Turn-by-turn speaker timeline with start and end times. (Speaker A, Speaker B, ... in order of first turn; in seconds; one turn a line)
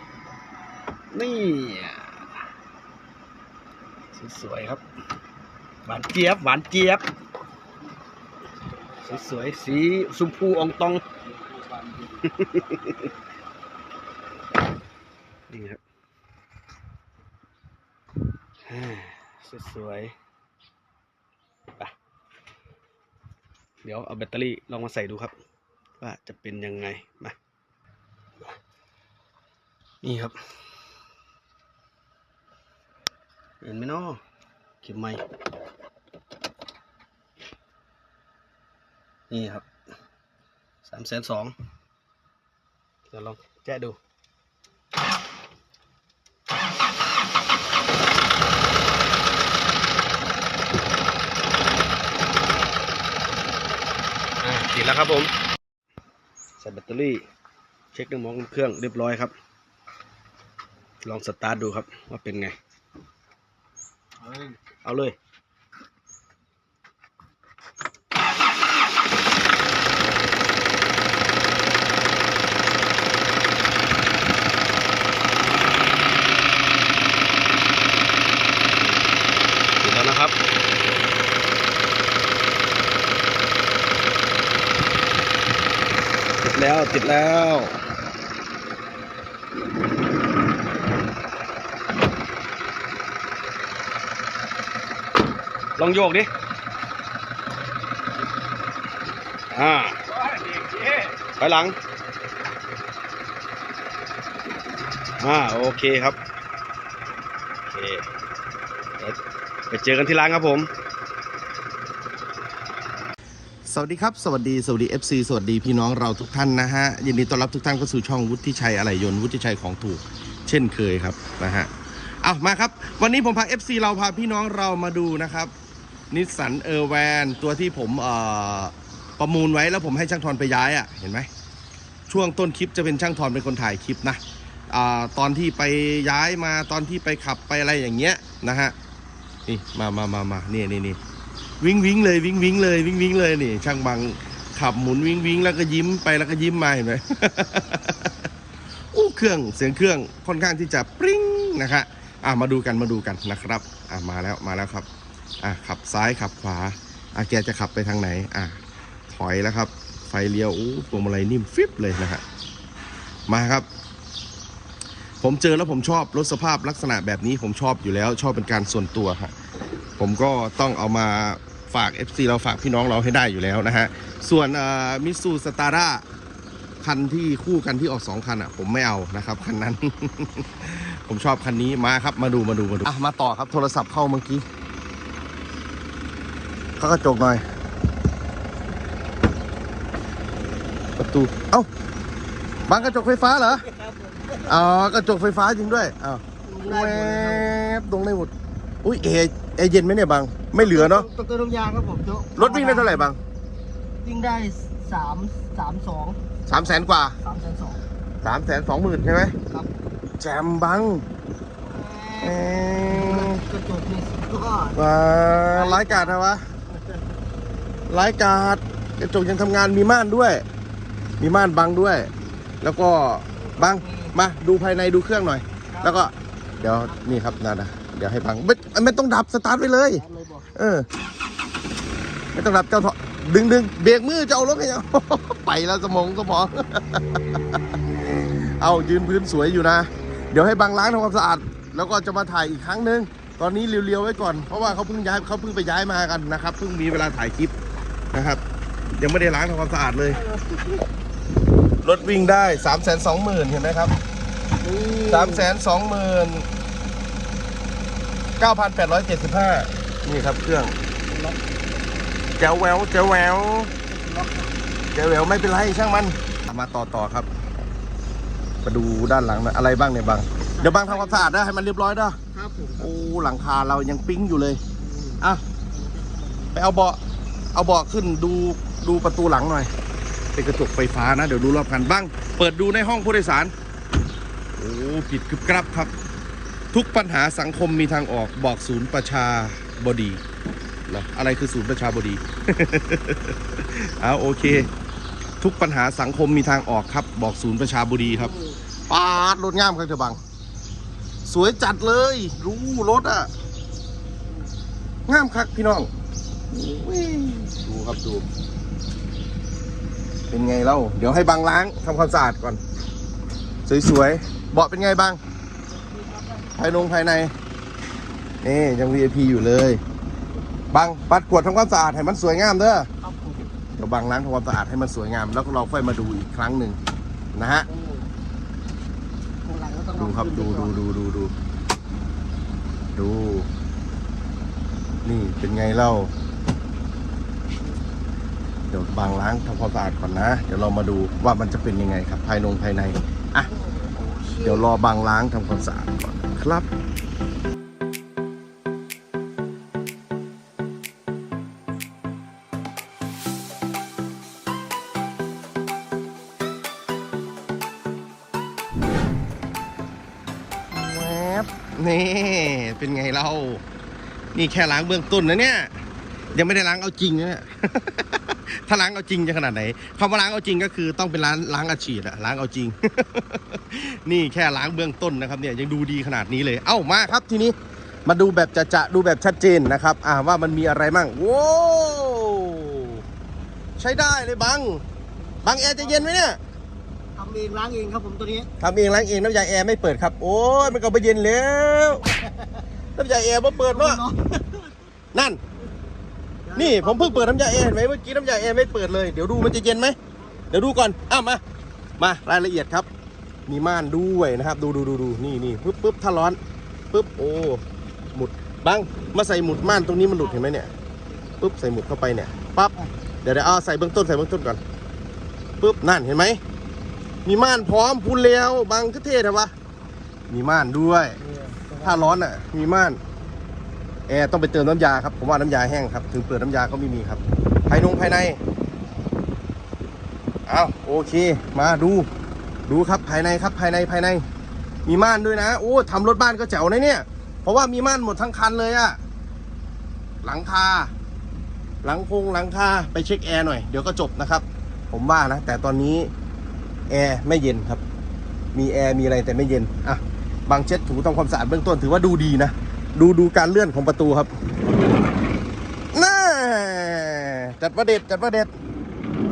Speaker A: 1.1-2.4
Speaker A: 4.1-4.8
Speaker A: 5.8-7.1
Speaker A: 9.0-11.0
Speaker A: 11.9-13.1
Speaker A: 15.5-15.8
Speaker A: 18.6-20.1
Speaker A: 23.8-25.3
Speaker A: 26.0-27.4
Speaker A: 30.0-30.5
Speaker A: 33.6-34.2
Speaker A: 34.8-35.2
Speaker A: 39.3-39.7
Speaker A: 40.8-41.5
Speaker A: 43.1-44.0
Speaker A: 54.4-55.3
Speaker A: 56.6-57.2
Speaker A: 57.9-59.3
Speaker A: 61.0-62.5
Speaker A: 64.3-65.2
Speaker A: 79.8-80.4
Speaker A: 86.4-87.8
Speaker A: 95.8-96.3
Speaker A: 99.5-101.8
Speaker A: 105.2-106.2
Speaker A: 107.6-108.1
Speaker A: 109.7-110.7
Speaker B: 113.7-121.7
Speaker B: 122.2-125.5
Speaker B: 126.1-131.3
Speaker B: 132.1-138.7
Speaker B: 139.4-141.0
Speaker B: 141.6-148.1
Speaker B: 148.9-154.9
Speaker B: 155.4-158.6
Speaker B: 159.1-162.2
Speaker B: 163.3-163.7
Speaker B: 165.2-169.3
Speaker B: 170.0-176.0
Speaker B: 176.8-184.4
Speaker B: 186.8-187.4
Speaker B: 191.0-191.7
Speaker B: 192.6-193.7
Speaker C: 193.7-194.4
Speaker B: 194.4-198.3
Speaker C: 196.4-197.6
Speaker B: 198.8-201.1
Speaker C: 200.6-203.1
Speaker B: 202.3-203.2
Speaker C: 204.0-206.2
Speaker B: 206.5-207.2
Speaker C: 207.2-207.8
Speaker B: 208.2-209.3
Speaker C: 209.5-209.8
Speaker B: 210.2-211.0
Speaker C: 211.6-214.8
Speaker B: 212.2-213.4
Speaker B: 214.7-216.4
Speaker C: 215.5-216.2
Speaker C: 216.7-216.9
Speaker B: 217.9-220.4
Speaker B: 221.2-230.0
Speaker C: 223.5-224.1
Speaker C: 225.7-226.0
Speaker C: 229.9-230.5
Speaker B: 230.5-230.9
Speaker B: 232.3-237.6
Speaker B: 238.3-247.5
Speaker B: 248.1-248.4
Speaker B: 249.0-250.2
Speaker B: 251.8-253.9
Speaker C: 254.6-255.5
Speaker B: 255.1-256.5
Speaker B: 258.4-260.7
Speaker C: 261.1-261.4
Speaker B: 262.4-263.7
Speaker C: 263.9-264.6
Speaker B: 264.9-267.3
Speaker B: 268.6-272.2
Speaker C: 270.5-271.3
Speaker C: 272.3-272.9
Speaker B: 272.8-274.6
Speaker C: 274.8-276.5
Speaker B: 276.5-277.0
Speaker B: 277.5-279.7
Speaker B: 280.3-283.5
Speaker B: 284.6-285.9
Speaker B: 286.7-290.2
Speaker B: 290.9-294.7
Speaker B: 295.4-298.3
Speaker C: 298.1-298.6
Speaker B: 298.9-300.2
Speaker B: 301.2-303.3
Speaker B: 305.1-305.9
Speaker B: 306.5-308.2
Speaker B: 310.3-312.6
Speaker B: 313.6-315.2
Speaker C: 315.7-316.7
Speaker B: 316.5-317.3
Speaker B: 318.4-319.8
Speaker B: 320.7-322.9
Speaker C: 323.0-323.5
Speaker B: 323.8-326.8
Speaker B: 327.3-327.7
Speaker C: 327.6-328.1
Speaker C: 329.4-330.8
Speaker B: 330.0-331.3
Speaker B: 332.9-333.5
Speaker B: 335.0-336.1
Speaker B: 338.7-343.5
Speaker C: 343.7-344.5
Speaker B: 344.4-346.6
Speaker B: 360.7-363.6
Speaker B: 364.3-365.7
Speaker B: 366.3-377.5
Speaker B: 378.1-383.0
Speaker B: 383.8-384.8
Speaker B: 385.4-386.4
Speaker C: 385.6-386.1
Speaker C: 387.1-388.5
Speaker B: 388.6-392.0
Speaker B: 392.9-394.0
Speaker C: 393.6-394.7
Speaker B: 395.1-395.4
Speaker C: 396.4-397.4
Speaker B: 396.5-399.9
Speaker B: 400.5-401.4
Speaker B: 402.0-402.9
Speaker B: 403.5-406.4
Speaker B: 406.9-407.6
Speaker B: 408.1-410.7
Speaker B: 411.4-414.6
Speaker B: 415.6-416.4
Speaker B: 417.2-419.5
Speaker B: 420.3-421.2
Speaker C: 421.2-421.8
Speaker B: 421.8-423.0
Speaker B: 424.1-428.4
Speaker B: 430.5-432.1
Speaker B: 432.7-434.2
Speaker B: 434.9-439.0
Speaker B: 440.2-440.9
Speaker B: 441.8-446.1
Speaker B: 446.9-447.8
Speaker B: 448.5-454.3
Speaker B: 455.9-458.5